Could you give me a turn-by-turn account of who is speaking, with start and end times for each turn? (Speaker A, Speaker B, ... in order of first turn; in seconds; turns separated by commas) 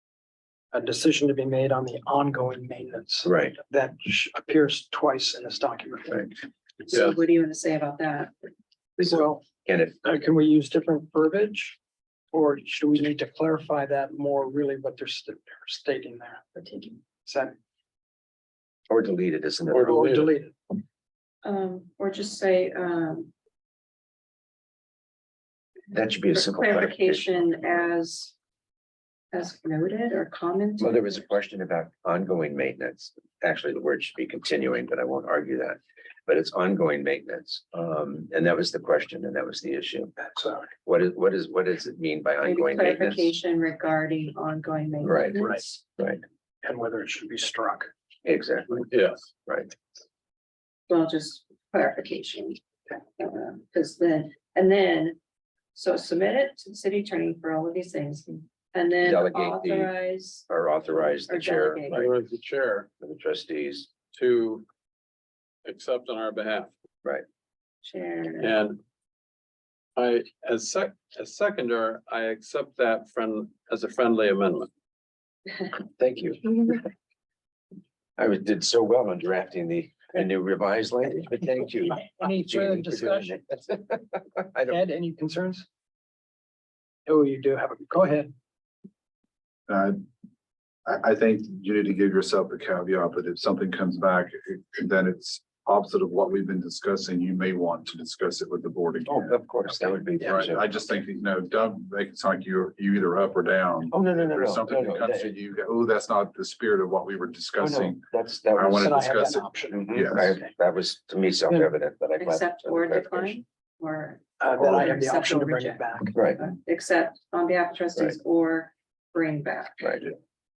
Speaker A: 0.7-6.3, Speaker B: 3.3-3.6, Speaker C: 6.9-8.3, Speaker B: 9.0-10.0, Speaker A: 9.0-9.4, Speaker A: 10.1-11.8, Speaker A: 12.3-17.5, Speaker B: 18.9-20.0, Speaker D: 19.7-20.3, Speaker A: 19.8-20.5, Speaker C: 21.4-23.3, Speaker B: 25.9-27.8, Speaker C: 26.3-28.4, Speaker C: 29.3-31.2, Speaker B: 30.8-40.1, Speaker A: 40.3-40.7, Speaker B: 40.9-43.3, Speaker C: 42.4-45.8, Speaker B: 45.0-45.5, Speaker A: 46.6-47.9, Speaker B: 48.2-48.9, Speaker D: 48.7-49.3, Speaker B: 49.5-49.7, Speaker C: 50.9-55.2, Speaker C: 55.7-60.5, Speaker B: 59.0-59.9, Speaker B: 60.5-62.2, Speaker C: 61.3-62.1, Speaker D: 61.9-62.9, Speaker B: 63.0-63.9, Speaker D: 64.1-64.7, Speaker D: 65.7-66.7, Speaker C: 67.8-68.6, Speaker D: 68.4-68.8, Speaker D: 70.0-74.7, Speaker B: 76.0-76.7, Speaker B: 78.2-84.8, Speaker A: 82.1-83.3, Speaker A: 84.7-85.7, Speaker A: 87.1-88.3, Speaker E: 89.7-90.0, Speaker E: 90.9-99.4, Speaker B: 99.1-100.7, Speaker E: 100.1-110.4, Speaker B: 103.9-105.3, Speaker B: 107.6-109.0, Speaker A: 108.8-110.4, Speaker B: 109.7-113.4, Speaker C: 112.2-120.0, Speaker A: 114.4-116.1, Speaker B: 114.6-115.0, Speaker B: 116.1-116.4, Speaker B: 119.8-120.1